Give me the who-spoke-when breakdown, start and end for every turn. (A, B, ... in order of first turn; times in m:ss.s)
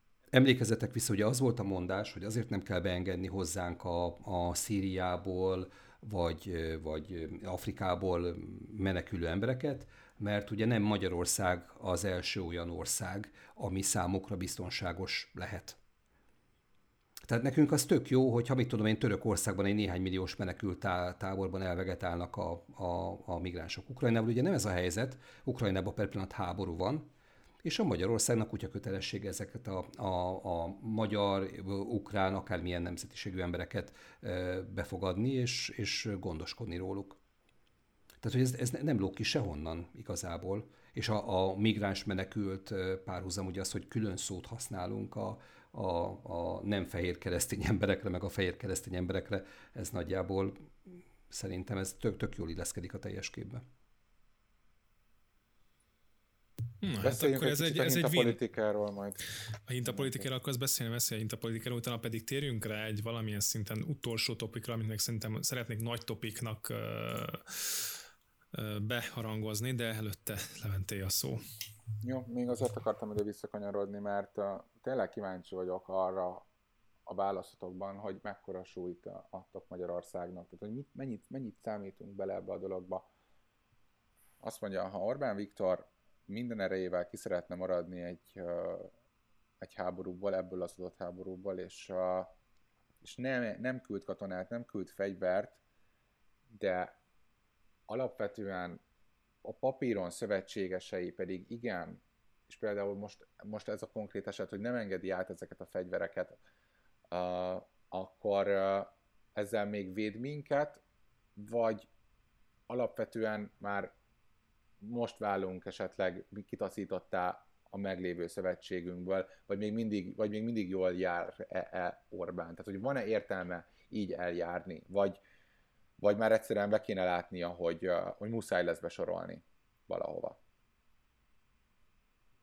0:00.3-0:15.8 A
0:17.2-0:27.1 A
0:27.6-0:37.2 A
0:38.2-0:53.6 A
0:56.8-0:58.4 B
0:57.0-0:59.2 C
0:59.7-1:07.9 B
0:59.9-1:00.2 C
1:08.5-1:11.4 B
1:12.0-1:16.4 C
1:17.1-1:23.1 C
1:24.4-1:28.9 C
1:29.6-1:32.3 C
1:33.0-1:35.6 C
1:36.5-1:37.0 C
1:37.9-1:38.8 C
1:39.4-1:46.4 C
1:47.1-1:50.8 C
1:51.4-1:51.9 C
1:52.7-1:53.9 C
1:54.8-2:05.2 C
2:06.0-2:10.4 C